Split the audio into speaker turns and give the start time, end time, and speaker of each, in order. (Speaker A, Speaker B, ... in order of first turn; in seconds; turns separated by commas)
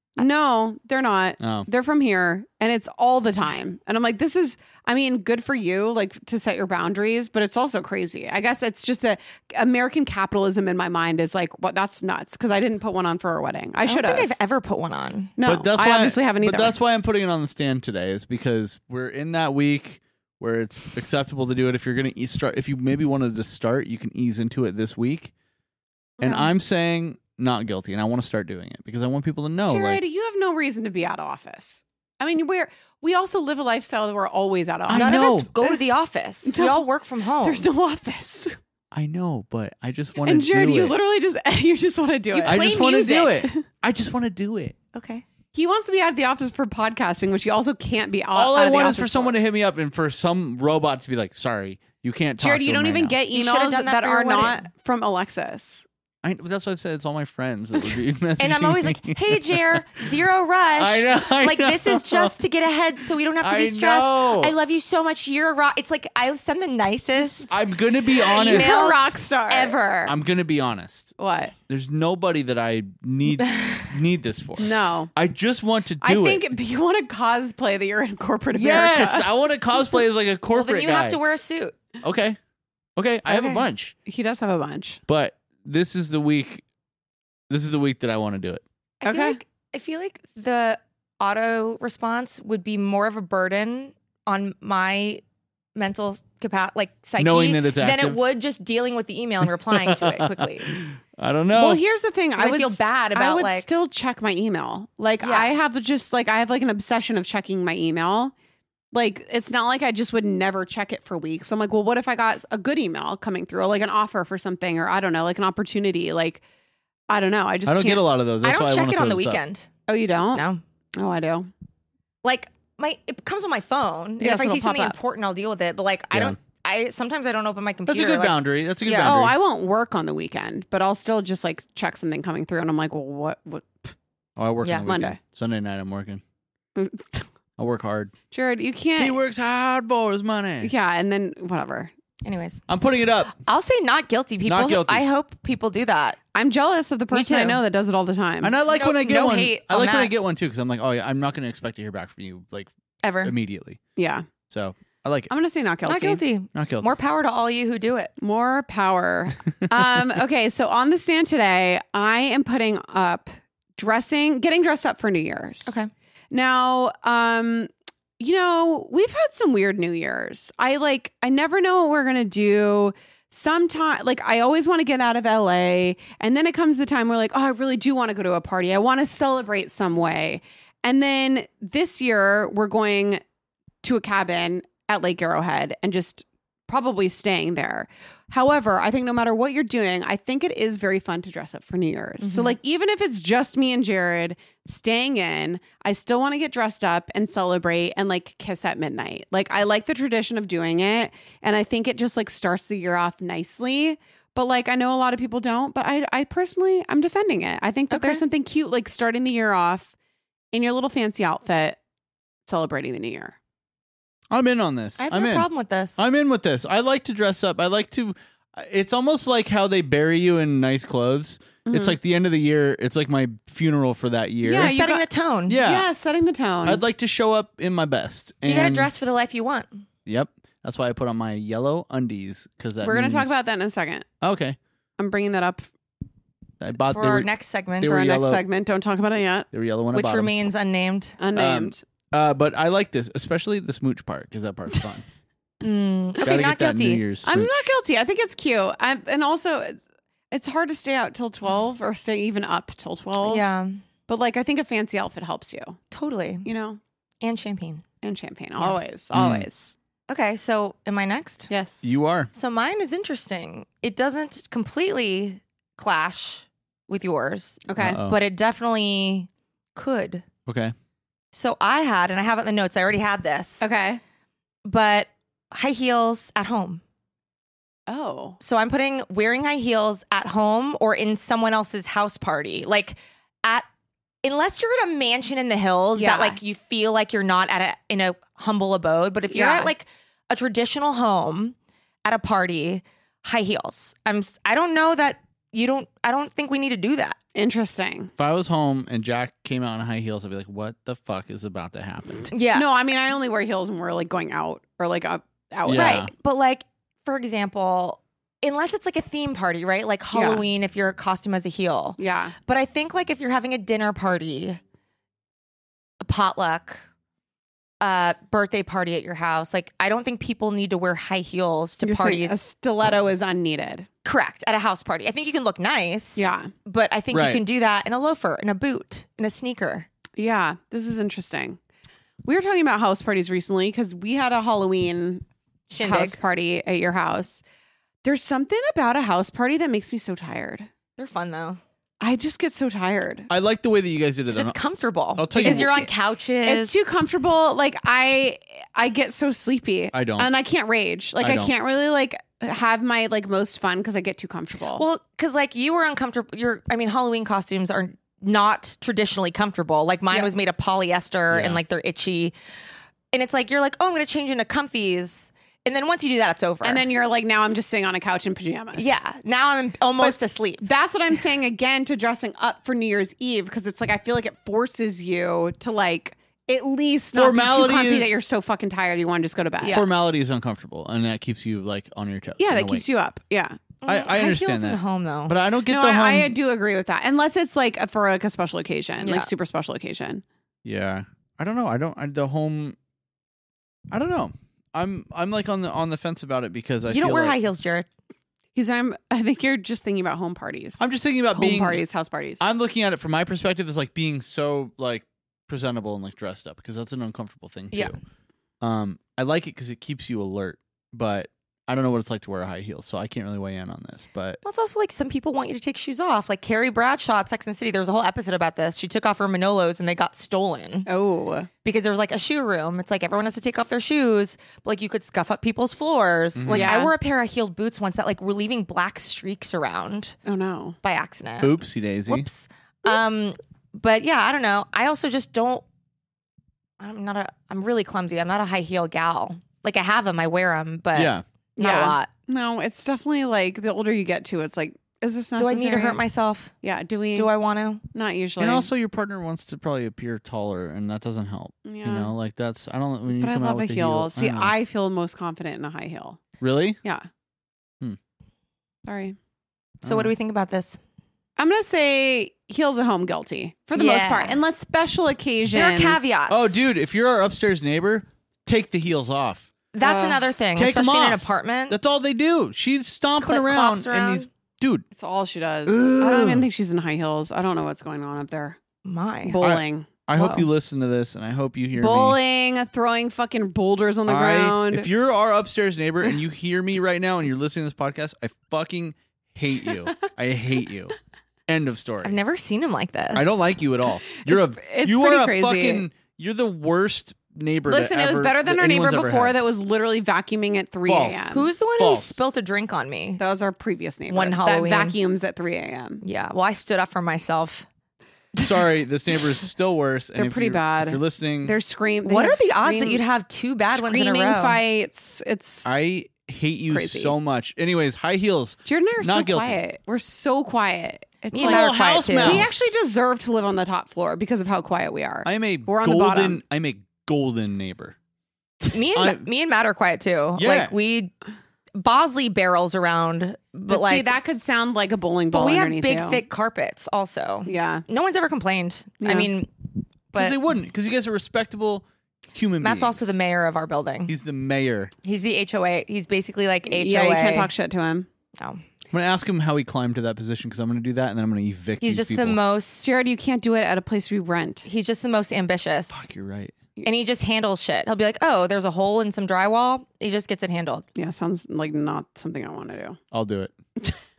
Speaker A: 0.2-14.3, Speaker B: 1.4-1.7, Speaker C: 13.8-15.3, Speaker A: 15.4-16.8, Speaker B: 15.4-25.3, Speaker A: 26.2-26.5, Speaker B: 26.2-30.0, Speaker A: 29.6-35.8, Speaker B: 34.9-35.5, Speaker C: 34.9-37.6, Speaker A: 36.4-36.8, Speaker A: 37.4-38.5, Speaker B: 38.9-41.0, Speaker A: 40.2-43.6, Speaker C: 42.3-43.3, Speaker B: 42.5-44.8, Speaker C: 44.9-45.2, Speaker A: 45.5-49.3, Speaker B: 48.3-53.2, Speaker A: 52.4-55.9, Speaker C: 53.3-54.6, Speaker B: 56.2-60.0, Speaker C: 58.4-67.6, Speaker B: 60.8-62.4, Speaker B: 63.4-64.5, Speaker B: 67.5-68.8, Speaker C: 68.2-70.2, Speaker A: 68.2-69.8, Speaker B: 70.0-71.1, Speaker A: 71.2-71.5, Speaker B: 71.7-76.4, Speaker C: 73.6-73.8, Speaker A: 74.6-75.1, Speaker A: 76.0-79.3, Speaker B: 78.5-81.2, Speaker C: 80.5-81.8, Speaker B: 82.0-82.4, Speaker B: 83.0-83.9, Speaker C: 83.3-83.6, Speaker A: 84.0-85.0, Speaker B: 85.1-86.6, Speaker B: 87.5-88.6, Speaker C: 89.0-95.2, Speaker A: 89.0-89.4, Speaker C: 95.7-100.8, Speaker B: 97.2-98.2, Speaker B: 99.7-101.8, Speaker A: 101.5-108.3, Speaker C: 102.4-103.7, Speaker C: 105.2-105.5, Speaker A: 108.9-116.4, Speaker A: 117.1-118.1, Speaker B: 117.7-119.4, Speaker C: 118.4-119.7, Speaker A: 119.9-120.4, Speaker C: 120.3-120.6, Speaker A: 121.0-121.5, Speaker C: 122.2-129.1, Speaker A: 124.2-125.0, Speaker B: 126.1-126.4, Speaker B: 127.9-129.3, Speaker A: 129.0-133.9, Speaker B: 134.4-136.2, Speaker C: 134.6-134.9, Speaker A: 134.8-135.2, Speaker A: 136.7-137.2, Speaker B: 137.6-138.1, Speaker A: 138.3-139.2, Speaker B: 139.0-140.7, Speaker A: 140.6-141.9, Speaker C: 142.2-142.6, Speaker B: 142.7-143.3, Speaker C: 143.3-146.2, Speaker B: 144.4-145.0, Speaker A: 146.3-148.5, Speaker C: 147.1-147.6, Speaker B: 148.4-152.7, Speaker C: 148.7-150.1, Speaker C: 153.0-153.3, Speaker B: 153.2-153.8, Speaker A: 153.9-154.3, Speaker B: 154.5-155.3, Speaker A: 155.3-156.2, Speaker C: 155.8-158.1, Speaker B: 156.5-156.9, Speaker A: 158.2-183.2, Speaker A: 183.8-209.9, Speaker C: 192.2-192.6, Speaker C: 207.9-208.2, Speaker A: 210.5-211.8, Speaker A: 212.4-213.3, Speaker B: 214.3-224.7, Speaker C: 215.0-216.0, Speaker A: 221.7-222.0, Speaker A: 224.4-225.0, Speaker C: 224.5-225.6, Speaker B: 225.5-225.9, Speaker A: 225.6-226.8, Speaker B: 226.6-228.9, Speaker C: 228.4-229.8, Speaker B: 230.1-233.3, Speaker A: 232.8-234.1, Speaker B: 234.2-234.6, Speaker A: 235.0-235.7, Speaker B: 236.6-237.3, Speaker C: 236.9-237.9, Speaker B: 237.8-238.4, Speaker A: 237.8-239.5, Speaker B: 239.5-240.3, Speaker C: 239.9-241.2, Speaker A: 241.2-241.8, Speaker B: 241.3-245.0, Speaker C: 245.6-247.0, Speaker B: 246.2-247.7, Speaker A: 247.2-253.5, Speaker C: 253.2-253.8, Speaker A: 254.1-255.8, Speaker C: 255.9-256.5, Speaker A: 256.4-256.8, Speaker C: 257.2-257.8, Speaker A: 258.0-259.7, Speaker B: 259.1-259.5, Speaker C: 260.1-261.5, Speaker A: 261.5-261.9, Speaker B: 261.8-262.3, Speaker C: 262.3-270.2, Speaker A: 267.7-268.0, Speaker B: 267.8-268.2, Speaker B: 270.4-270.7, Speaker C: 271.3-273.7, Speaker A: 273.6-274.0, Speaker C: 274.6-276.8, Speaker A: 277.9-278.4, Speaker C: 278.4-283.6, Speaker C: 284.2-297.2, Speaker A: 285.9-286.4, Speaker A: 289.3-289.7, Speaker A: 297.3-298.1, Speaker B: 298.2-302.3, Speaker C: 302.3-302.7, Speaker A: 302.5-306.0, Speaker B: 305.6-306.1, Speaker C: 305.7-314.6, Speaker A: 310.1-310.4, Speaker A: 312.0-312.3, Speaker C: 316.0-316.8, Speaker C: 317.8-322.4, Speaker A: 321.8-323.9, Speaker C: 324.0-329.9, Speaker A: 326.2-326.5, Speaker B: 327.1-327.4, Speaker A: 330.2-331.6, Speaker A: 332.2-335.2, Speaker C: 335.7-336.2, Speaker A: 335.8-337.4, Speaker A: 338.0-340.7, Speaker C: 341.0-341.6, Speaker A: 342.0-343.3, Speaker B: 343.3-344.6, Speaker C: 344.3-346.8, Speaker B: 345.2-345.8, Speaker A: 345.3-345.9, Speaker A: 346.4-354.8, Speaker B: 349.9-350.3, Speaker B: 351.2-351.5, Speaker C: 354.7-362.3, Speaker B: 361.3-361.6, Speaker C: 363.1-366.8, Speaker A: 366.6-368.9, Speaker C: 368.7-370.7, Speaker A: 370.0-379.8, Speaker B: 377.1-378.1, Speaker C: 379.6-379.9, Speaker B: 379.7-382.8, Speaker A: 382.4-383.7, Speaker C: 383.8-385.3, Speaker B: 383.9-386.4, Speaker A: 385.6-390.2, Speaker C: 389.0-389.3, Speaker B: 390.6-392.8, Speaker B: 393.9-397.4, Speaker C: 396.9-397.9, Speaker A: 398.5-402.4, Speaker B: 400.8-401.8, Speaker B: 402.4-408.0, Speaker C: 407.7-408.0, Speaker B: 408.6-414.4, Speaker C: 414.4-420.9, Speaker A: 420.9-421.5, Speaker C: 421.6-430.1, Speaker B: 426.3-426.7, Speaker A: 426.5-426.9, Speaker A: 430.2-430.8, Speaker C: 430.8-435.6, Speaker B: 431.4-432.3, Speaker C: 436.8-442.1, Speaker B: 440.9-441.2, Speaker A: 441.6-446.0, Speaker C: 445.4-446.5, Speaker A: 446.6-447.3, Speaker C: 447.1-447.8, Speaker A: 447.9-448.7, Speaker B: 448.4-454.5, Speaker A: 451.6-452.1, Speaker A: 453.1-456.2, Speaker B: 456.4-456.8, Speaker A: 458.9-459.1, Speaker C: 459.8-460.8, Speaker B: 459.8-460.1, Speaker A: 461.4-466.1, Speaker C: 463.7-464.4, Speaker C: 465.5-466.6, Speaker B: 466.3-469.5, Speaker C: 469.7-471.8, Speaker A: 469.8-470.2, Speaker B: 470.6-474.8, Speaker C: 473.2-474.3, Speaker A: 474.9-478.6, Speaker B: 475.6-476.5, Speaker C: 478.8-479.4, Speaker A: 479.2-480.4, Speaker B: 479.4-482.2, Speaker A: 481.8-484.9, Speaker B: 484.1-490.9, Speaker B: 491.5-492.2, Speaker C: 492.0-493.5, Speaker B: 493.1-499.4, Speaker A: 494.2-495.9, Speaker A: 497.7-501.5, Speaker B: 500.9-502.2, Speaker C: 501.3-503.2, Speaker A: 503.2-506.0, Speaker C: 504.1-504.9, Speaker C: 506.0-507.7, Speaker B: 508.4-511.5, Speaker A: 510.1-513.0, Speaker C: 512.0-514.6, Speaker A: 513.7-515.8, Speaker B: 515.6-519.6, Speaker A: 516.7-517.1, Speaker A: 518.6-526.4, Speaker C: 521.3-522.5, Speaker B: 521.3-522.6, Speaker B: 525.2-528.0, Speaker C: 528.7-531.1, Speaker B: 528.9-529.2, Speaker B: 530.4-530.7, Speaker C: 531.8-534.1, Speaker A: 533.7-536.2, Speaker C: 535.3-539.5, Speaker A: 537.5-537.8, Speaker A: 539.0-539.3, Speaker C: 540.1-540.4, Speaker B: 540.1-543.1, Speaker C: 542.6-544.1, Speaker B: 544.1-544.9, Speaker C: 545.0-547.5, Speaker A: 546.6-548.1, Speaker C: 548.4-548.6, Speaker B: 548.9-552.4, Speaker C: 551.8-553.0, Speaker A: 552.8-554.6, Speaker C: 554.6-556.0, Speaker B: 555.9-556.6, Speaker C: 556.8-560.8, Speaker A: 561.0-563.0, Speaker B: 563.1-563.5